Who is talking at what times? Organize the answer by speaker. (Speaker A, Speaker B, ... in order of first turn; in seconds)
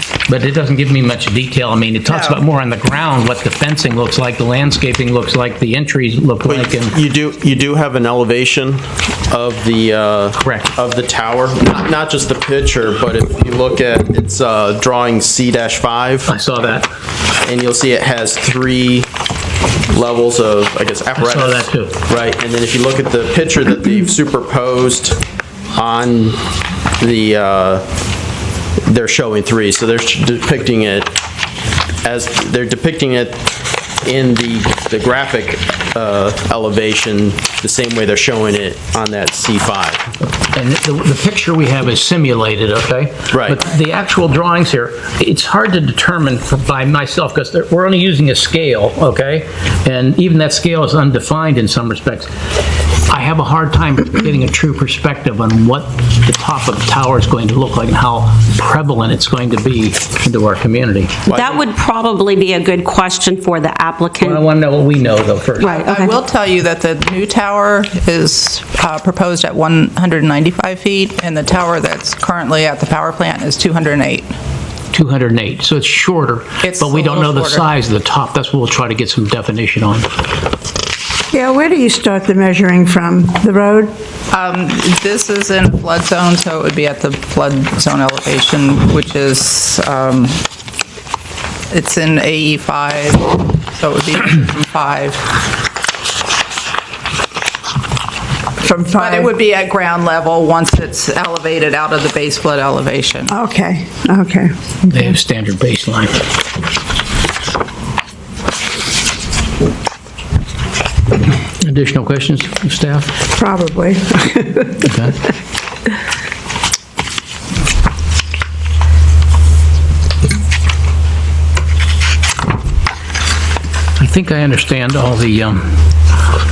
Speaker A: 0.3-7.0, 10.4-10.7, 16.3-16.9, 21.2-22.0, 40.5-52.3, 53.1-61.2, 64.2-65.8, 74.9-80.1, 104.9-106.2, 111.6-113.1, 114.8-115.1, 124.0-125.8
Speaker B: 2.1-2.4, 65.9-74.3, 76.6-77.6, 84.3-90.3, 91.7-95.1, 99.0-103.2
Speaker C: 6.4-16.3, 17.4-19.1, 19.9-25.2, 25.7-26.4, 27.0-27.9, 28.9-31.2, 32.0-40.0, 43.3-43.6, 61.3-61.6
Speaker D: 61.3-64.4, 65.6-66.2
Speaker E: 81.3-83.9, 98.6-99.3, 103.3-104.5, 113.3-114.7